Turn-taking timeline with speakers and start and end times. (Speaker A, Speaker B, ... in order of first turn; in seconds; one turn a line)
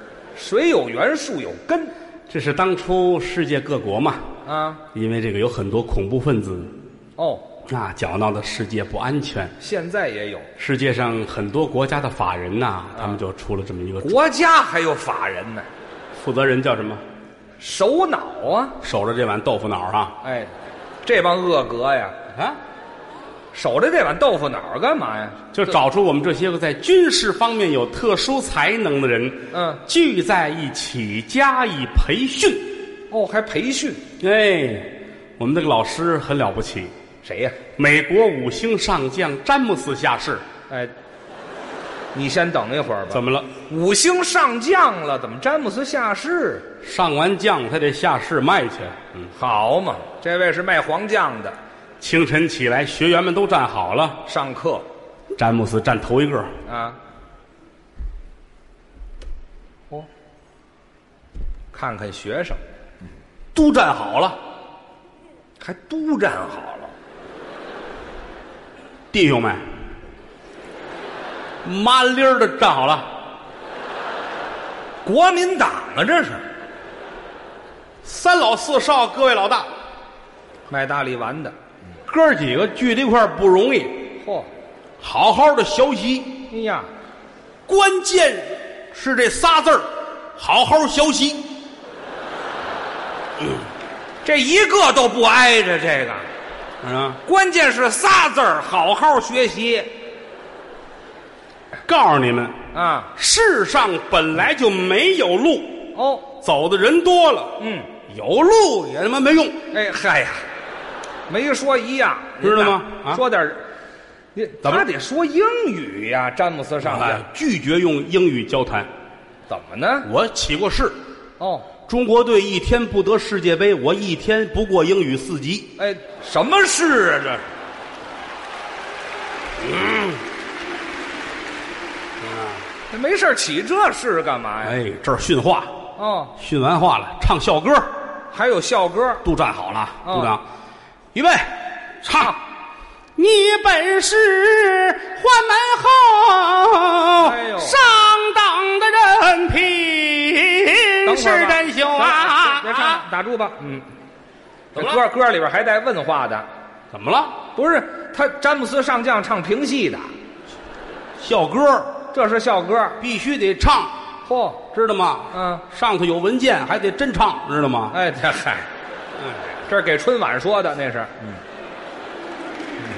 Speaker A: 0.3-1.9
Speaker B: 2.3-4.3
Speaker A: 4.5-4.8
Speaker B: 4.9-6.7
Speaker A: 7.2-7.4
Speaker B: 7.7-9.5
Speaker A: 9.6-10.5
Speaker B: 10.6-14.2
Speaker A: 14.0-15.7
Speaker B: 16.2-17.0
Speaker A: 17.6-18.8
Speaker B: 18.8-20.1
Speaker A: 20.2-20.5
Speaker A: 21.0-22.1
Speaker B: 22.3-22.6
Speaker A: 23.5-25.5
Speaker B: 25.5-32.7
Speaker A: 29.5-29.8
Speaker A: 33.1-34.0
Speaker B: 34.2-36.9
Speaker A: 37.2-37.6
Speaker B: 37.8-40.4
Speaker A: 42.1-46.6
Speaker B: 43.1-43.5
Speaker B: 46.8-49.3
Speaker A: 49.3-51.5
Speaker B: 52.0-54.2
Speaker A: 54.2-54.8
Speaker B: 55.3-56.5
Speaker A: 56.6-57.0
Speaker A: 61.7-62.6
Speaker B: 63.5-64.4
Speaker A: 65.6-66.9
Speaker B: 69.1-69.7
Speaker B: 71.6-73.1
Speaker A: 75.0-76.4
Speaker B: 78.0-79.7
Speaker A: 80.7-81.5
Speaker B: 82.1-84.1
Speaker A: 84.2-84.5
Speaker B: 85.0-86.5
Speaker A: 86.5-86.9
Speaker B: 87.7-91.5
Speaker A: 94.2-96.3
Speaker B: 96.8-97.2
Speaker A: 97.2-99.9
Speaker B: 101.8-102.6
Speaker A: 102.7-103.1
Speaker B: 103.1-109.6
Speaker A: 105.9-106.3
Speaker A: 107.6-107.9
Speaker A: 109.7-110.4
Speaker A: 111.3-113.6
Speaker B: 112.4-113.2
Speaker A: 114.3-117.2
Speaker B: 116.8-118.9
Speaker A: 119.5-120.1
Speaker B: 120.0-121.0
Speaker A: 121.4-121.7
Speaker B: 121.9-125.7
Speaker A: 125.8-127.5
Speaker B: 129.6-130.2
Speaker B: 132.2-132.7
Speaker A: 132.9-134.8
Speaker B: 134.6-135.8
Speaker A: 136.0-136.3
Speaker B: 136.3-137.9
Speaker A: 138.3-139.2
Speaker B: 139.2-140.4
Speaker A: 140.0-140.3
Speaker B: 141.1-142.3
Speaker B: 143.2-153.0
Speaker A: 147.2-147.8
Speaker A: 151.0-153.8
Speaker A: 154.7-156.5
Speaker B: 156.9-157.4
Speaker A: 157.6-160.1
Speaker B: 161.2-162.0
Speaker A: 162.1-163.0
Speaker B: 163.0-163.9
Speaker A: 164.2-164.6
Speaker B: 164.7-167.9
Speaker A: 165.3-165.6
Speaker A: 167.9-168.7
Speaker A: 169.7-171.4